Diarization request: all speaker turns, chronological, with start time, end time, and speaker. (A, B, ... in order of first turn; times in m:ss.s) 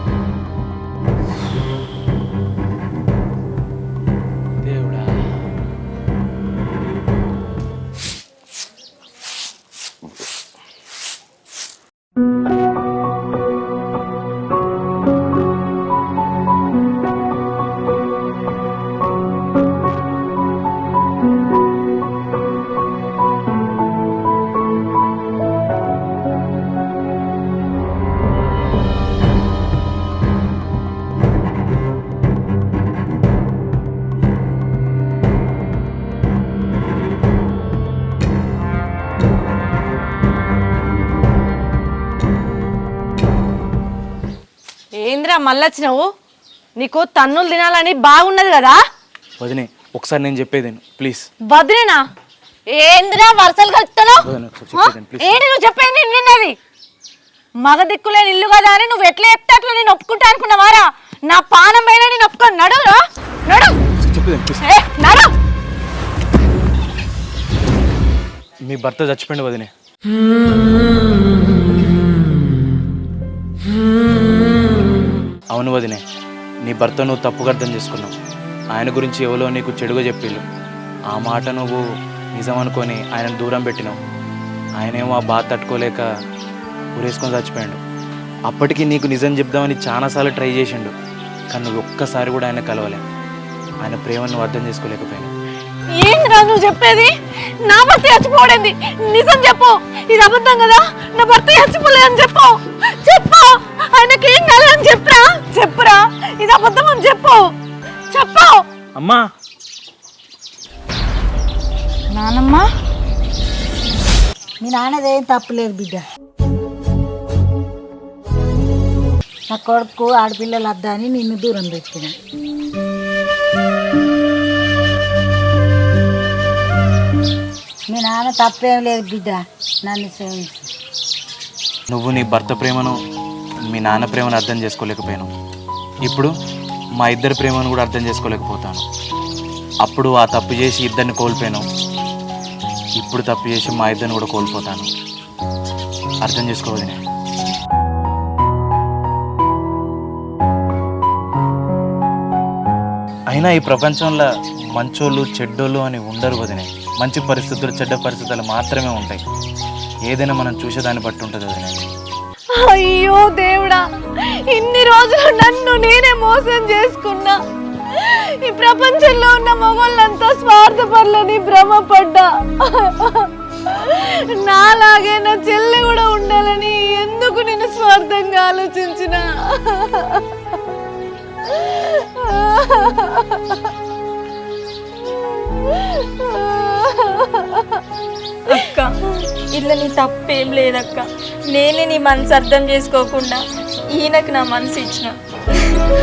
0:04.6-0:05.3 A
0:45.0-0:46.1 B
0:46.8-0:48.8 B
0:49.4-0:51.3 A
0:51.5-0:52.0 B
0:52.7-0:56.6 B
0:54.2-0:55.3 A
0:57.6-1:03.8 B
1:04.0-1:04.6 A
1:04.6-1:05.3 B
1:08.7-1:09.7 A
1:15.5-1:16.0 A
1:16.7-1:18.1 A
1:18.8-1:20.4 A
1:21.1-1:21.8 A
1:22.4-1:24.0 A
1:24.8-1:26.0 A
1:27.0-1:27.8 A
1:28.5-1:30.9 A
1:31.5-1:33.0 A
1:33.8-1:35.3 A
1:36.0-1:37.1 B
1:37.6-1:47.5 B
1:48.1-1:48.6 B
1:49.0-1:49.2 A
1:52.1-1:52.7 B
1:54.6-1:56.0 C
1:59.5-2:02.2 C
2:07.9-2:10.7 C
2:11.9-2:13.0 A
2:13.7-2:15.3 A
2:16.1-2:16.3 A
2:17.0-2:18.8 A
2:19.8-2:21.6 A
2:23.0-2:24.9 A
2:26.2-2:27.0 A
2:33.3-2:39.2 A
2:40.1-2:41.9 A
2:42.6-2:47.4 B
2:47.9-3:00.3 B
3:01.4-3:03.7 B
3:05.0-3:07.8 B
3:08.5-3:08.9 D
3:09.5-3:13.4 D
3:13.9-3:15.1 D